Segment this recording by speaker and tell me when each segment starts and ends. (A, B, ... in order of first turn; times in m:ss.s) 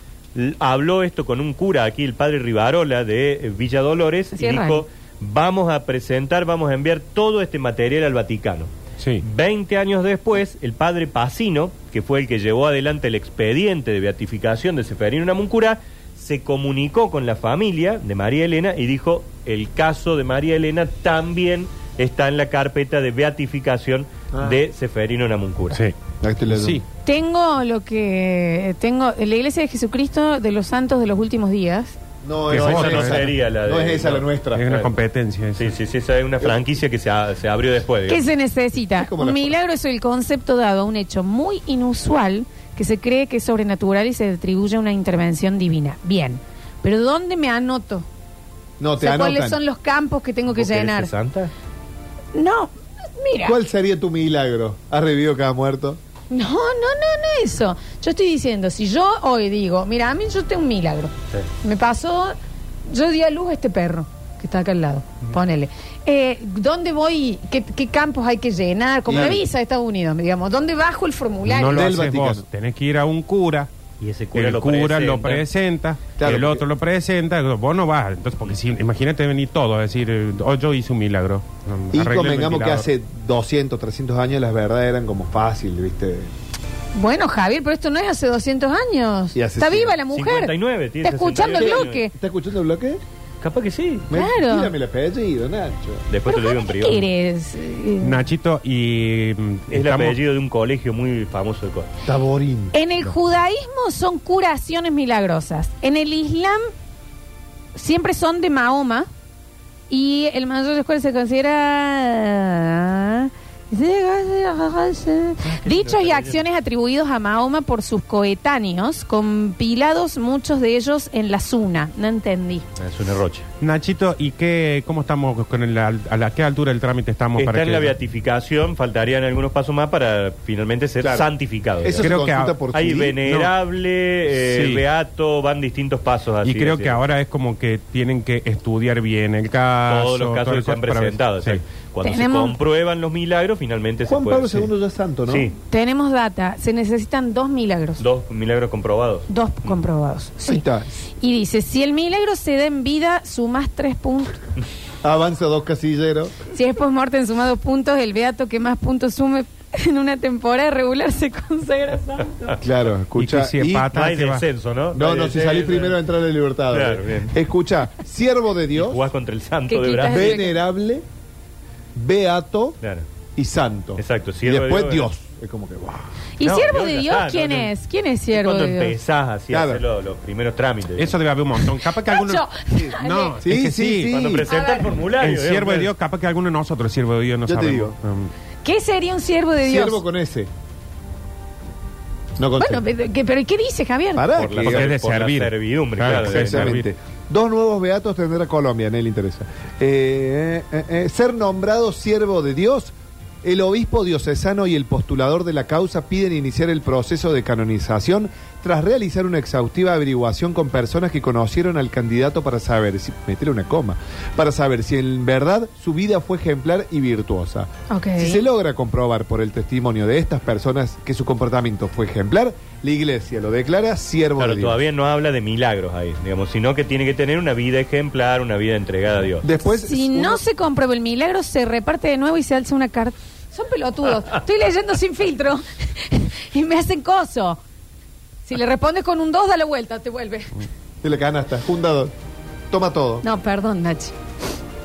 0:00.4-0:08.7 A
0:04.3-0:04.8 B
0:09.0-0:09.2 C
0:09.2-0:25.8 A
0:24.3-0:24.6 D
0:25.7-0:26.0 C
0:26.2-0:26.8 D
0:26.5-0:26.8 C
0:27.0-0:32.0 B
0:32.2-0:34.6 D
0:32.5-0:34.9 A
0:32.5-0:33.3 C
0:34.6-0:35.7 C
0:35.6-0:38.3 A
0:38.1-0:48.1 B
0:39.0-0:39.6 D
0:48.8-0:49.6 D
0:49.0-0:51.1 B
0:50.5-0:51.5 A
0:52.3-0:53.6 B
0:53.4-0:56.0 D
0:56.3-1:02.4 B
1:02.9-1:11.9 B
1:09.1-1:09.4 D
1:11.5-1:13.7 C
1:11.7-1:12.4 D
1:14.0-1:15.4 A
1:14.4-1:22.9 C
1:16.2-1:16.6 D
1:21.9-1:26.3 D
1:27.0-1:32.1 B
1:29.3-1:30.0 D
1:30.1-1:32.0 A
1:31.5-1:33.0 D
1:33.4-1:34.1 A
1:34.1-1:36.0 D
1:34.1-1:34.7 B
1:36.1-1:37.0 A
1:36.3-1:38.2 B
1:38.0-1:40.2 C
1:39.7-1:41.9 A
1:42.0-1:42.8 D
1:42.7-1:46.7 B
1:47.8-1:49.1 B
1:49.9-2:02.6 B
1:55.4-1:56.4 A
2:02.8-2:03.5 A
2:03.6-2:07.9 C
2:07.4-2:12.1 A
2:11.0-2:11.3 D
2:11.8-2:13.2 D
2:12.0-2:12.6 C
2:12.7-2:17.0 A
2:13.3-2:13.5 C
2:14.4-2:14.8 C
2:16.4-2:21.6 C
2:19.9-2:24.7 A
2:22.0-2:22.6 B
2:24.1-2:25.5 D
2:25.3-2:25.6 A
2:25.7-2:28.0 B
2:28.0-2:29.3 A
2:29.3-2:30.7 B
2:30.5-2:30.9 D
2:31.2-2:34.4 B
2:35.0-2:36.4 D
2:36.5-2:42.6 B
2:42.6-2:43.9 D
2:43.2-2:44.4 C
2:43.9-2:46.0 A
2:44.9-2:49.1 D
2:46.7-2:47.4 A
2:48.7-2:50.4 A
2:49.7-2:50.5 B
2:50.1-2:51.0 D
2:51.9-2:52.8 D
2:53.4-2:56.1 D
2:54.0-2:55.1 A
2:56.4-2:58.9 B
2:56.4-2:57.7 A
2:58.3-3:01.2 A
2:59.5-2:59.8 D
3:01.0-3:04.3 C
3:01.6-3:03.4 B
3:02.7-3:04.5 D
3:04.2-3:05.9 A
3:04.5-3:04.9 B
3:05.0-3:08.3 C
3:07.5-3:08.0 D
3:08.6-3:10.0 B
3:09.6-3:10.5 D
3:12.4-3:12.8 D
3:12.6-3:14.3 B
3:14.2-3:14.9 D
3:14.4-3:16.8 A
3:14.6-3:16.9 C
3:16.1-3:44.8 D
3:37.9-3:38.4 B
3:44.4-3:49.5 A
3:49.4-3:50.4 D
3:49.7-3:57.6 B
3:58.5-4:00.6 B
4:01.0-4:02.1 D
4:02.7-4:03.2 D
4:03.2-4:04.2 B